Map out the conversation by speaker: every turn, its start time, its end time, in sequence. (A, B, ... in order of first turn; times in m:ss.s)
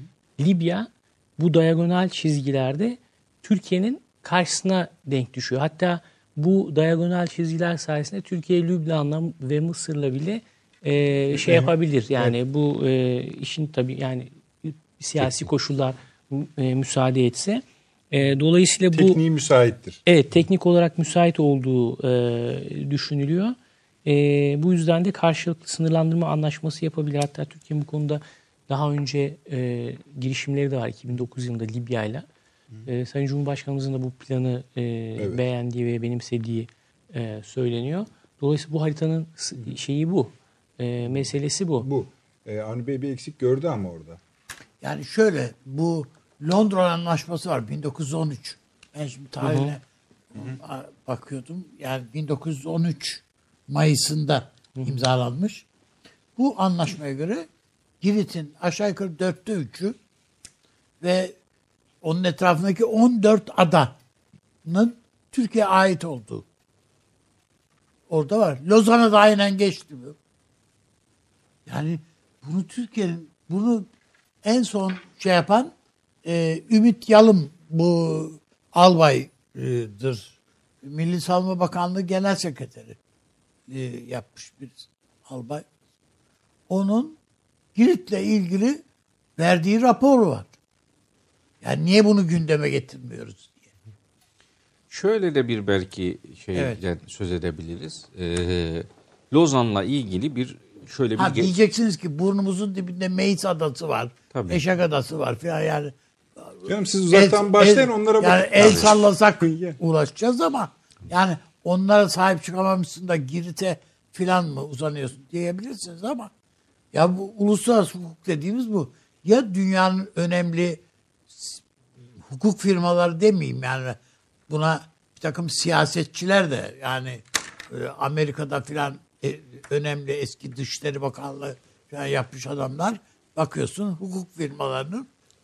0:00.4-0:19.2 A
0:11.3-0:12.4 B
0:18.9-0:20.0 B
0:20.1-0:32.3 A
0:32.9-0:41.9 A
0:35.2-0:35.4 B
0:41.0-0:44.2 B
0:44.8-0:49.8 C
0:49.4-0:49.8 A
0:50.4-0:55.6 C
0:54.8-0:55.0 A
0:56.4-0:57.5 C
0:58.0-1:00.0 C
1:01.0-1:01.4 C
1:02.0-1:04.0 C
1:04.6-1:06.4 C
1:08.1-1:10.2 C
1:11.7-1:13.9 C
1:14.4-1:15.7 C
1:16.2-1:23.0 C
1:23.7-1:25.6 C
1:26.7-1:27.2 C
1:27.8-1:28.8 C
1:29.4-1:30.5 C
1:31.6-1:33.7 C
1:34.9-1:41.5 D
1:36.5-1:36.8 C
1:41.2-1:56.3 C
1:44.3-1:44.6 D
1:46.7-1:49.8 B
1:48.6-1:48.9 D
1:56.9-2:01.6 C
2:02.2-2:04.0 C
2:04.5-2:15.1 C